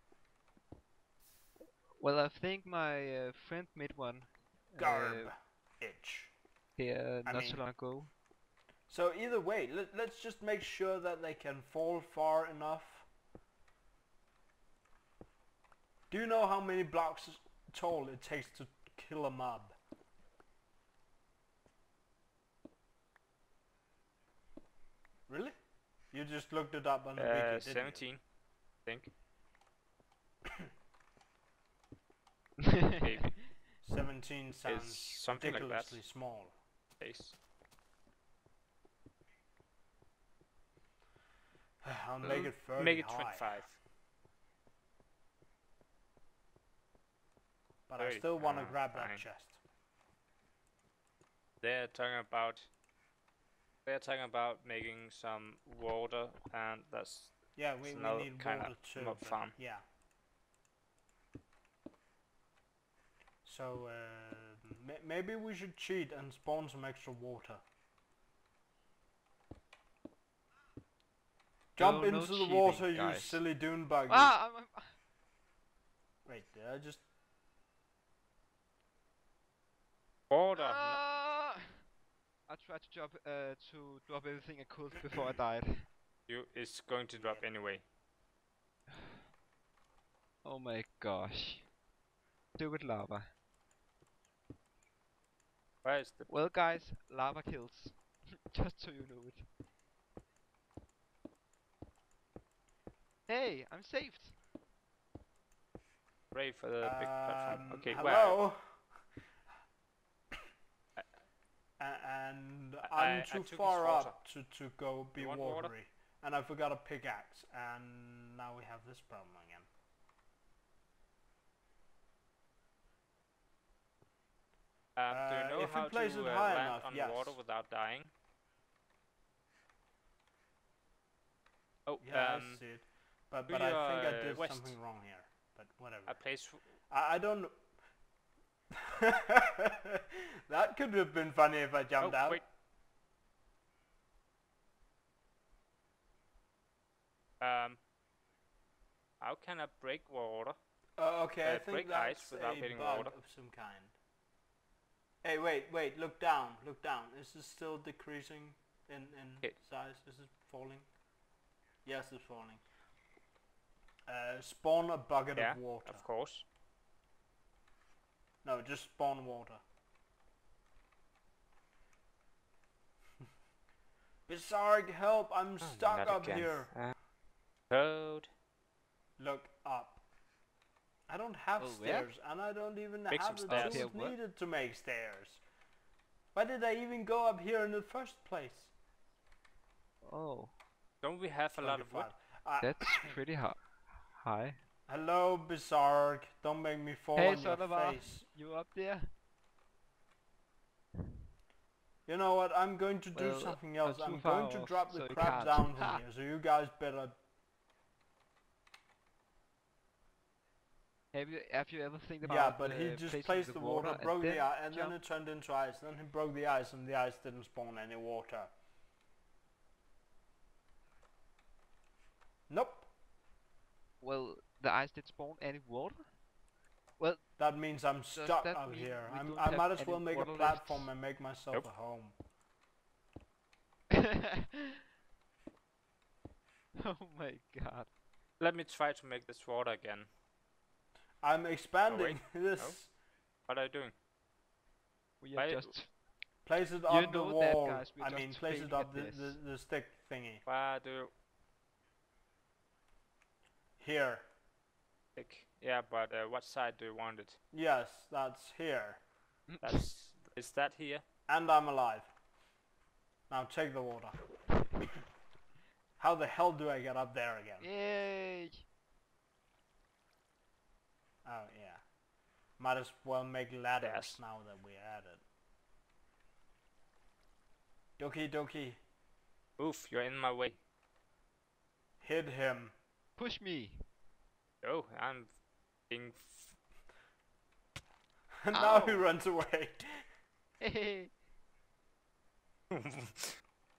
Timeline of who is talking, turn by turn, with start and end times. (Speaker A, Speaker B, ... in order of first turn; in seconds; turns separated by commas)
Speaker A: 2.0-5.3, Speaker B: 4.8-6.3, Speaker A: 6.8-8.1, Speaker B: 7.2-7.6, Speaker B: 8.9-13.1, Speaker B: 16.1-19.7, Speaker B: 25.3-25.6, Speaker B: 26.1-28.1, Speaker C: 27.2-28.2, Speaker C: 28.8-29.1, Speaker A: 32.6-33.1, Speaker C: 33.0-33.5, Speaker B: 33.8-36.5, Speaker C: 34.6-36.0, Speaker C: 37.0-37.3, Speaker B: 41.8-43.6, Speaker C: 42.2-43.8, Speaker B: 47.9-49.6, Speaker C: 48.0-49.2, Speaker C: 51.6-52.7, Speaker C: 53.9-59.5, Speaker B: 57.5-59.8, Speaker B: 63.4-67.6, Speaker B: 71.8-74.3, Speaker A: 71.8-73.4, Speaker A: 74.1-75.0, Speaker B: 76.2-77.0, Speaker C: 80.3-81.0, Speaker A: 80.5-81.8, Speaker A: 82.5-85.9, Speaker C: 86.3-87.8, Speaker B: 87.2-87.4, Speaker A: 88.9-89.2, Speaker A: 90.4-91.7, Speaker A: 92.6-93.3, Speaker C: 95.8-96.3, Speaker A: 96.3-99.5, Speaker A: 103.3-104.4, Speaker C: 106.3-108.4, Speaker B: 106.8-108.8, Speaker B: 111.8-119.7, Speaker C: 112.8-114.1, Speaker C: 115.2-115.7, Speaker C: 125.0-128.1, Speaker B: 125.1-127.4, Speaker C: 131.9-132.6, Speaker B: 132.0-136.2, Speaker C: 133.5-134.7, Speaker C: 136.1-136.6, Speaker B: 136.9-137.6, Speaker B: 138.7-142.4, Speaker C: 142.0-142.4, Speaker C: 147.4-147.8, Speaker C: 149.2-150.6, Speaker B: 151.0-153.9, Speaker C: 151.4-153.1, Speaker B: 155.2-160.9, Speaker B: 161.8-162.6, Speaker B: 164.1-166.0, Speaker C: 165.3-166.4, Speaker B: 168.4-169.6, Speaker B: 174.3-176.7, Speaker C: 175.6-176.9, Speaker C: 177.7-178.3, Speaker B: 179.2-180.0, Speaker B: 181.1-185.4, Speaker A: 181.6-182.1, Speaker C: 183.1-183.8, Speaker A: 183.5-184.2, Speaker B: 186.3-188.7, Speaker A: 190.0-190.5, Speaker C: 191.0-192.1, Speaker B: 191.6-193.1, Speaker A: 192.6-194.6, Speaker B: 194.9-198.2, Speaker A: 197.2-199.1, Speaker B: 202.1-207.2, Speaker A: 203.1-206.0, Speaker A: 211.1-214.9, Speaker B: 212.2-218.5, Speaker B: 222.5-222.9, Speaker A: 224.0-226.1, Speaker A: 227.0-227.2, Speaker B: 227.4-232.1, Speaker A: 228.1-230.9, Speaker A: 233.9-234.8, Speaker A: 236.8-237.9, Speaker C: 238.4-240.1, Speaker B: 241.2-242.9, Speaker C: 241.9-242.8, Speaker C: 243.5-243.9, Speaker A: 245.2-245.9, Speaker C: 245.3-245.7, Speaker B: 246.4-250.4, Speaker A: 246.9-249.4, Speaker C: 250.4-251.1, Speaker B: 253.8-254.2, Speaker C: 255.2-257.4, Speaker B: 257.5-259.0, Speaker A: 259.5-259.8, Speaker C: 259.6-261.0, Speaker B: 261.3-262.1, Speaker B: 263.3-264.2, Speaker B: 266.0-267.7, Speaker A: 267.6-268.6, Speaker B: 271.2-271.8, Speaker B: 272.6-275.2, Speaker C: 273.8-274.2, Speaker B: 278.0-278.8, Speaker C: 279.6-280.6, Speaker B: 282.0-282.7, Speaker A: 283.2-283.8, Speaker C: 284.6-285.3, Speaker C: 285.9-286.5, Speaker B: 288.4-290.0, Speaker A: 288.5-289.1, Speaker A: 290.6-291.1, Speaker C: 292.7-293.4